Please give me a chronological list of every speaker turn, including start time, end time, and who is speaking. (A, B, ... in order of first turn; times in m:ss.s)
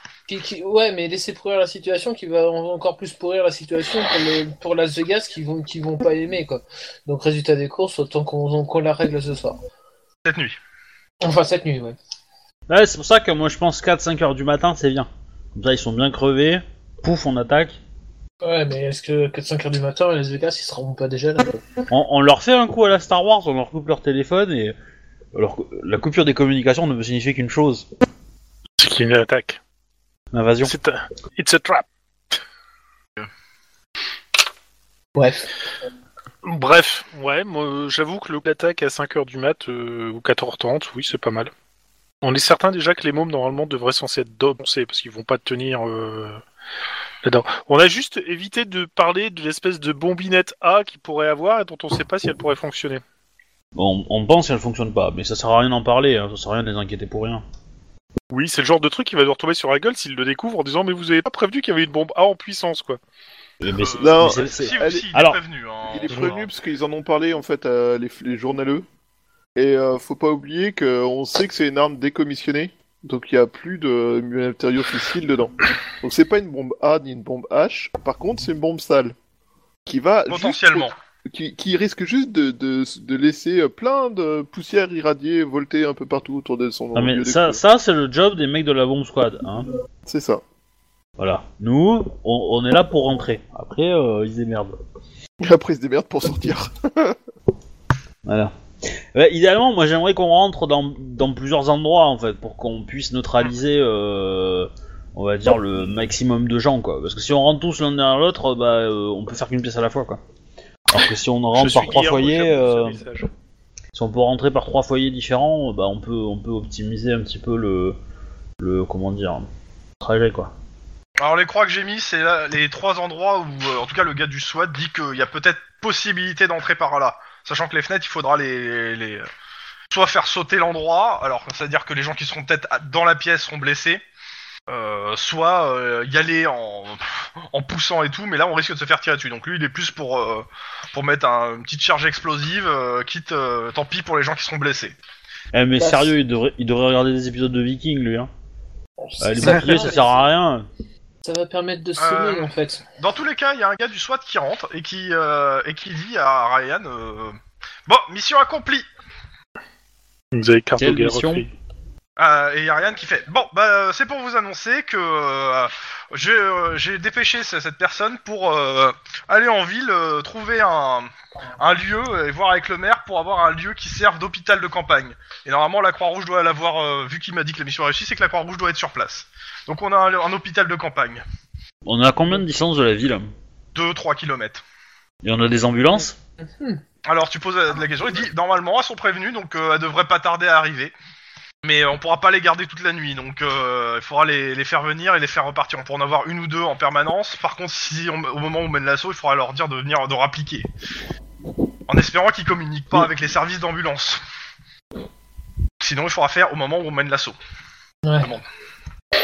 0:00.3-0:09.6 A
0:10.2-0:10.6 B
0:11.2-0:12.0 A
0:12.7-0:17.8 C
0:18.4-0:21.6 A
0:21.9-0:24.7 C
0:25.3-0:27.8 C
0:28.8-0:29.6 D
0:30.3-0:30.7 C
0:30.6-0:31.8 D
0:35.2-0:35.5 A
0:36.4-0:41.5 D
0:42.2-0:46.4 D
0:47.2-0:53.0 D
0:53.8-0:57.4 C
0:58.3-1:03.0 D
1:03.6-1:05.4 C
1:03.7-1:06.5 B
1:04.0-1:05.1 E
1:05.9-1:08.8 E
1:09.6-1:19.1 E
1:19.8-1:27.6 E
1:20.3-1:20.9 B
1:26.9-1:29.7 C
1:30.0-1:30.4 E
1:31.2-1:34.8 C
1:35.4-1:37.2 E
1:38.2-1:38.5 C
1:39.1-1:50.2 C
1:50.9-1:53.0 C
1:51.5-1:53.3 D
1:53.9-1:58.0 C
1:58.6-1:59.5 C
2:00.0-2:00.5 C
2:01.2-2:09.2 B
2:09.9-2:14.0 B
2:14.7-2:24.9 B
2:25.5-2:28.3 C
2:25.8-2:26.1 A
2:29.0-2:30.3 A
2:29.2-2:30.7 C
2:31.2-2:32.8 A
2:32.0-2:38.8 B
2:40.3-2:41.5 D
2:40.8-2:41.4 C
2:42.2-3:01.2 B
3:01.8-3:03.3 C
3:03.7-3:04.6 B
3:05.2-3:06.1 C
3:07.0-3:10.9 B
3:11.6-3:20.7 B
3:21.9-3:24.2 B
3:25.8-3:27.4 B
3:28.0-3:28.3 A